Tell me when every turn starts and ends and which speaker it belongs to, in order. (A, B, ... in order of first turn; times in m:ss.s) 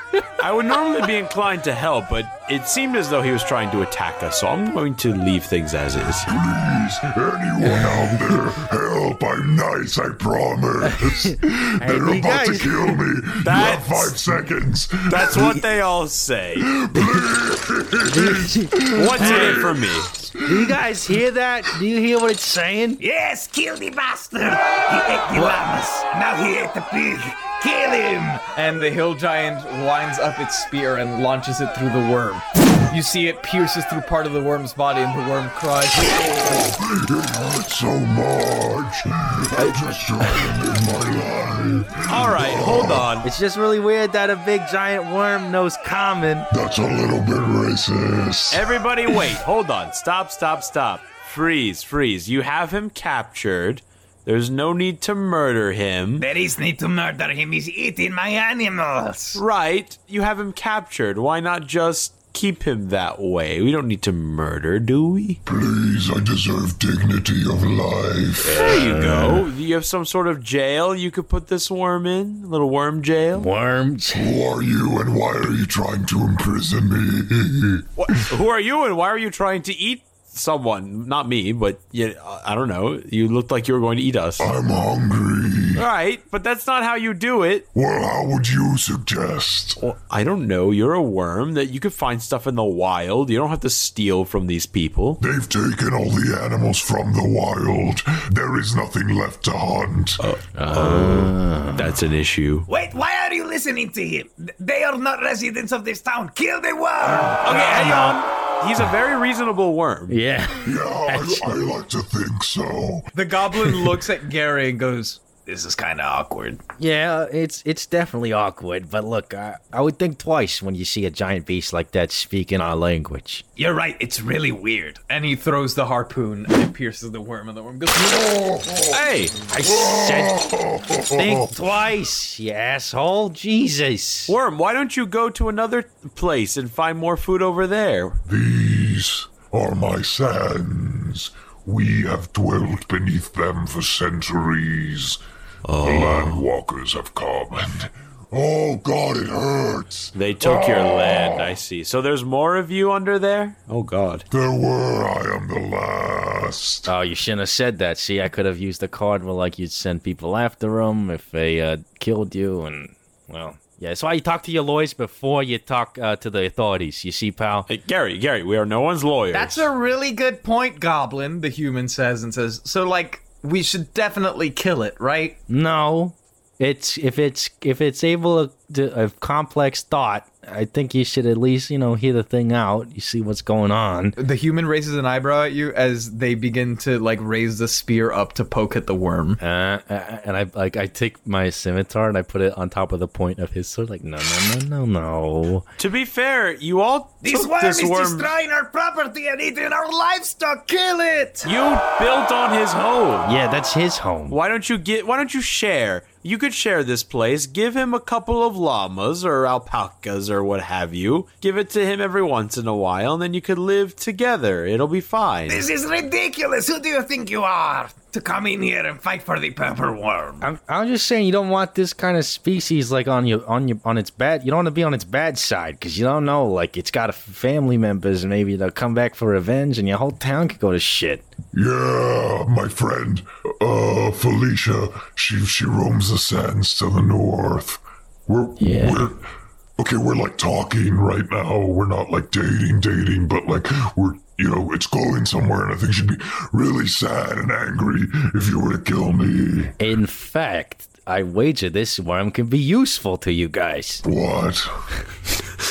0:00.4-0:06.3 A
0:06.3-0:15.6 B
0:10.8-0:13.0 C
0:13.4-0:14.2 A
0:15.1-0:16.7 A
0:16.6-0:19.8 B
0:18.1-0:19.7 C
0:19.0-0:20.1 A
0:20.4-0:23.0 C
0:23.0-0:28.5 D
0:25.4-0:25.6 A
0:28.6-0:36.1 E
0:36.0-0:43.1 B
0:42.1-0:43.3 A
0:43.2-0:46.5 C
0:46.5-0:48.6 B
0:48.5-0:56.3 A
0:56.2-0:59.4 D
0:59.4-1:05.4 A
1:05.4-1:08.6 B
1:08.4-1:09.5 C
1:08.5-1:13.5 A
1:13.3-1:14.3 C
1:14.1-1:17.9 B
1:18.0-1:24.5 A
1:24.4-1:25.8 B
1:25.8-1:27.6 A
1:27.7-1:29.8 B
1:29.8-1:35.2 A
1:35.2-1:40.2 B
1:40.2-1:42.7 A
1:40.6-1:42.0 C
1:42.7-1:48.1 D
1:47.4-1:50.2 A
1:50.1-1:51.6 C
1:50.6-1:53.1 B
1:53.1-1:56.2 E
1:55.5-1:56.6 D
1:56.8-2:03.4 C
2:03.6-2:05.1 D
2:05.1-2:08.5 E
2:08.0-2:09.0 B
2:08.9-2:09.4 A
2:09.5-2:10.4 C
2:09.6-2:11.5 B
2:11.2-2:14.4 C
2:14.3-2:18.2 A
2:18.3-2:25.2 B
2:25.6-2:26.4 A
2:25.8-2:31.6 B
2:30.1-2:34.3 A
2:34.3-2:36.9 B
2:36.9-2:47.7 C
2:47.7-2:49.7 A
2:49.3-2:55.4 E
2:55.5-3:04.2 C
3:04.2-3:09.4 E
3:09.4-3:15.7 C
3:15.8-3:18.3 A
3:17.2-3:21.5 D
3:21.4-3:23.3 A
3:23.2-3:24.4 C
3:24.3-3:35.6 A
3:35.5-3:40.5 D
3:40.4-3:51.3 C
3:51.5-3:59.2 B
3:58.6-3:59.1 C
3:59.8-4:09.8 B
4:09.8-4:14.0 C
4:14.0-4:14.7 B